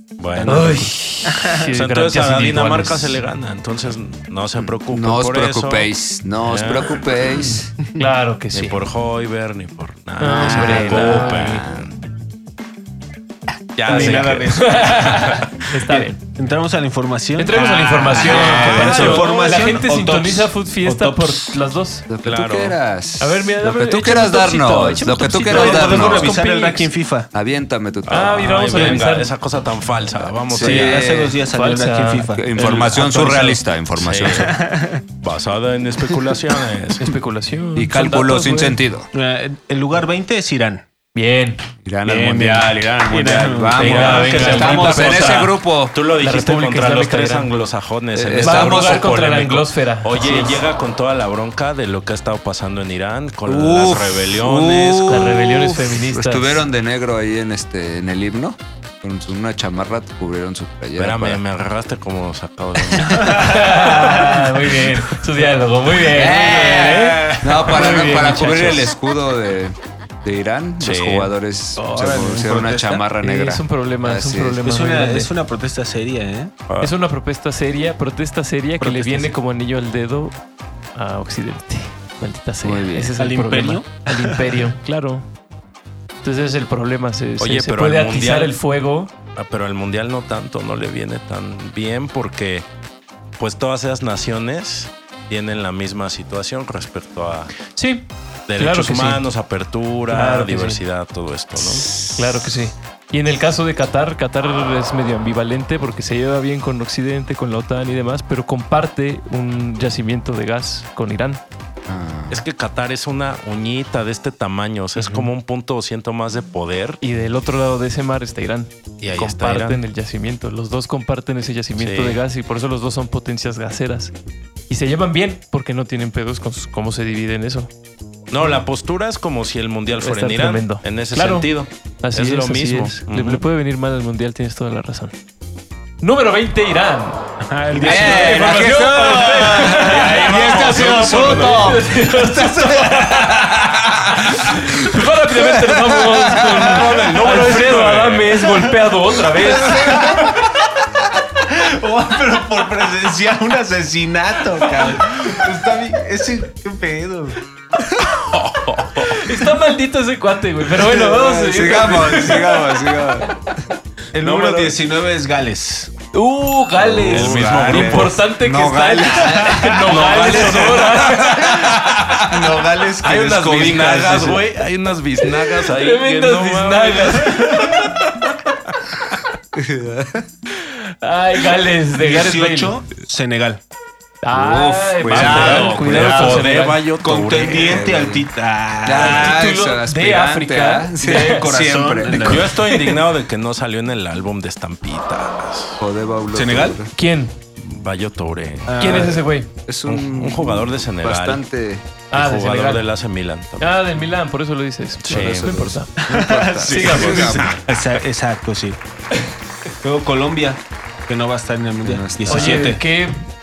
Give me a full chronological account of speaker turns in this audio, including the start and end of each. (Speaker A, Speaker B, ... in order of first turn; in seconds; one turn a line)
Speaker A: 0.2-0.9
Speaker B: 0.3-1.6
Speaker C: 0.4-3.2
Speaker A: 1.6-7.2
Speaker D: 4.5-7.7
Speaker C: 8.0-8.8
Speaker A: 8.5-11.9
Speaker C: 10.2-11.6
Speaker D: 10.3-11.8
Speaker A: 13.8-15.6
Speaker B: 13.8-15.2
Speaker C: 13.9-16.2
Speaker B: 15.8-21.6
Speaker C: 17.4-22.1
Speaker A: 18.1-19.8
Speaker D: 22.1-26.4
Speaker A: 22.2-22.8
Speaker C: 23.2-26.9
Speaker B: 25.4-27.3
Speaker D: 27.3-29.0
Speaker C: 28.1-29.3
Speaker A: 28.2-31.1
Speaker D: 30.5-31.4
Speaker B: 30.5-33.3
Speaker C: 31.4-33.6
Speaker D: 32.3-34.5
Speaker A: 34.0-34.5
Speaker B: 34.3-35.0
Speaker A: 35.2-37.1
Speaker C: 37.0-38.8
Speaker D: 37.8-39.1
Speaker B: 39.1-40.8
Speaker C: 41.1-41.6
Speaker D: 41.8-46.0
Speaker B: 42.0-44.4
Speaker C: 43.7-45.5
Speaker A: 43.8-55.2
Speaker C: 46.1-47.5
Speaker D: 48.1-49.1
Speaker C: 48.4-50.6
Speaker D: 53.5-61.4
Speaker C: 55.0-56.6
Speaker A: 61.0-63.9
Speaker C: 63.1-68.9
Speaker D: 66.0-74.6
Speaker A: 68.2-68.8
Speaker A: 70.8-71.3
Speaker B: 71.8-73.0
Speaker C: 73.2-75.3
Speaker B: 74.6-76.5
Speaker C: 76.8-80.3
Speaker B: 78.8-79.3
Speaker C: 80.9-85.3
Speaker D: 82.6-83.1
Speaker B: 83.2-84.5
Speaker C: 86.2-89.1
Speaker A: 87.4-88.5
Speaker A: 89.3-92.6
Speaker A: 93.4-97.5
Speaker C: 97.7-99.2
Speaker A: 98.5-102.1
Speaker C: 100.1-100.8
Speaker C: 102.1-111.4
Speaker D: 111.9-112.4
Speaker A: 112.3-117.0
Speaker C: 115.0-115.3
Speaker C: 117.0-124.1
Speaker A: 119.0-119.8
Speaker A: 121.8-122.2
Speaker C: 124.7-127.7
Speaker A: 128.3-133.4
Speaker C: 130.0-131.5
Speaker C: 132.0-135.1
Speaker C: 136.0-150.1
Speaker B: 137.4-138.7
Speaker D: 137.7-147.1
Speaker A: 139.9-141.8
Speaker A: 146.6-148.5
Speaker B: 149.3-150.5
Speaker B: 151.3-157.4
Speaker D: 157.8-158.2
Speaker A: 158.2-159.2
Speaker C: 159.0-162.8
Speaker D: 160.7-163.4
Speaker B: 164.1-165.9
Speaker A: 164.2-164.8
Speaker C: 166.1-171.9
Speaker D: 166.8-172.6
Speaker A: 167.1-168.2
Speaker B: 169.2-170.2
Speaker A: 169.9-170.9
Speaker B: 172.2-174.4
Speaker A: 173.0-177.9
Speaker C: 175.5-177.9
Speaker B: 177.2-177.7
Speaker D: 179.5-180.2
Speaker C: 180.5-182.8
Speaker B: 181.9-183.6
Speaker C: 184.2-186.8
Speaker D: 184.3-186.4
Speaker A: 185.1-187.9
Speaker B: 185.2-186.4
Speaker B: 187.0-189.4
Speaker D: 187.5-188.3
Speaker D: 188.8-192.5
Speaker C: 189.0-191.4
Speaker B: 191.0-192.6
Speaker A: 192.1-195.8
Speaker C: 192.1-193.0
Speaker D: 195.8-196.9
Speaker B: 196.3-196.8
Speaker C: 196.9-197.4
Speaker A: 197.6-199.1
Speaker B: 198.7-199.2
Speaker C: 198.8-199.5
Speaker D: 199.7-201.9
Speaker A: 199.8-201.4
Speaker C: 202.1-202.8
Speaker A: 202.1-203.8
Speaker C: 203.6-205.9
Speaker A: 205.0-205.6
Speaker D: 205.1-207.6
Speaker B: 206.0-208.8
Speaker C: 206.7-207.5
Speaker A: 206.9-207.8
Speaker B: 209.8-212.8
Speaker D: 211.8-212.8
Speaker C: 212.2-213.2